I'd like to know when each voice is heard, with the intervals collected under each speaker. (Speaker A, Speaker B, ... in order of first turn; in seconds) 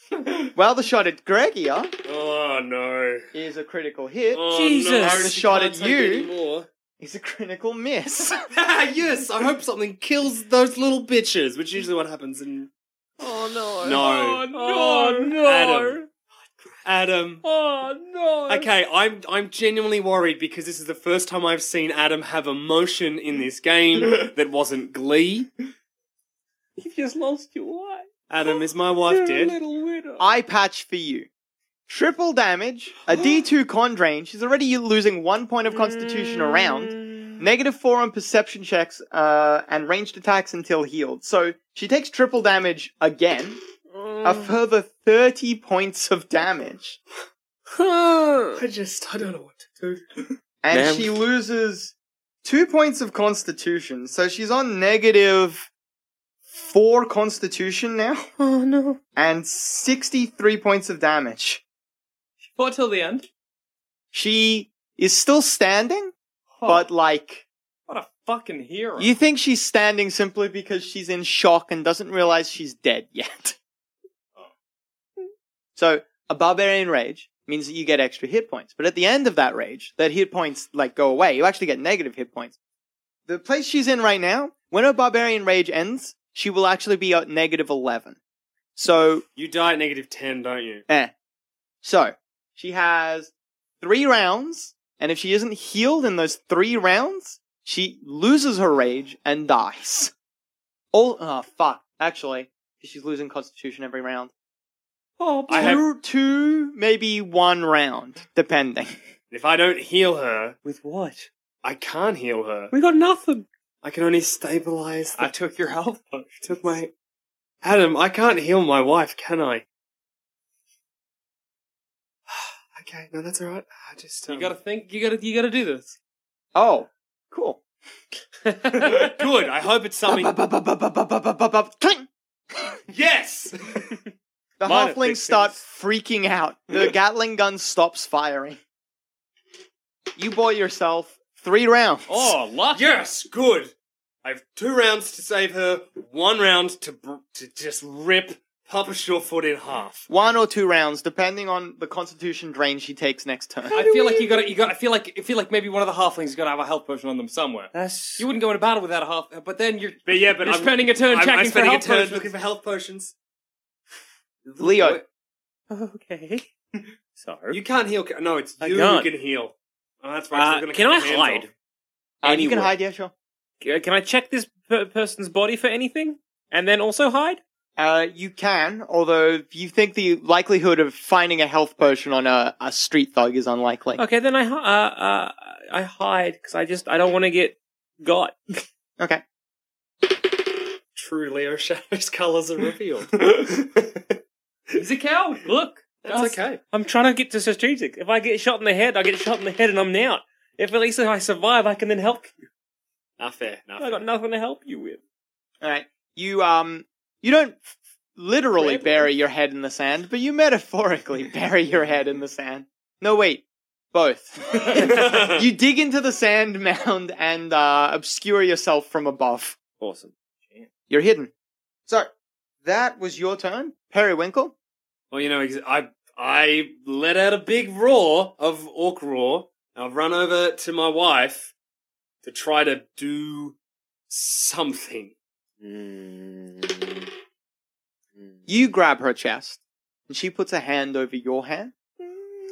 Speaker A: 0.5-1.9, 3.3-4.5, 5.0-6.3, 7.0-8.4, 30.2-31.3, 31.9-43.6, 44.2-47.0, 50.6-51.9, 52.4-55.7, 56.5-58.3, 59.1-61.6, 64.1-66.1, 66.6-67.4, 69.0-73.5, 75.8-82.5, 83.3-88.2, 88.8-89.2, 91.8-100.1, 100.9-104.3, 105.5-108.9, 126.5-127.6, 130.1-132.1, 134.6-138.6, 140.2-142.3, 150.1-153.7, 164.6-165.0, 172.2-173.1, 177.8-184.0, 205.6-219.6, 220.9-221.3, 222.6-224.5, 238.5-241.7
Speaker B: 2.0-3.2, 4.3-6.7, 8.5-12.7, 13.8-16.0, 16.8-17.4, 18.5-25.5, 28.3-29.6, 48.6-50.2, 89.3-90.8, 105.5-105.8, 109.3-110.6, 111.6-112.7, 113.8-115.3, 116.4-116.9, 117.6-119.6, 122.3-124.5, 128.8-130.3, 132.9-133.9, 142.7-143.7, 144.2-150.0, 160.1-163.1, 164.5-165.0, 167.5-171.5, 190.9-194.1, 196.0-196.6, 203.2-204.0, 214.8-215.4, 225.1-231.5, 232.2-233.6, 234.1-235.1
Speaker C: 4.5-5.3, 13.2-16.0, 17.4-18.6, 26.8-28.0, 29.1-30.3, 35.8-37.2, 43.9-44.5, 47.8-48.6, 50.7-51.1, 58.4-59.0, 105.2-105.8, 110.6-111.3, 112.7-113.4, 134.7-135.5, 157.7-158.3, 161.2-162.0, 165.7-166.4, 167.2-167.6, 168.6-169.1, 170.3-171.5, 172.2-172.7, 173.6-177.4, 183.9-188.4, 196.7-202.3, 203.8-205.0, 208.6-209.1, 219.7-220.1, 235.6-237.0, 238.2-238.4
Speaker D: 14.6-15.2, 62.4-63.2, 66.6-66.9, 67.9-69.1, 115.2-116.4, 124.3-126.0, 142.1-142.9, 153.7-162.3, 194.7-196.6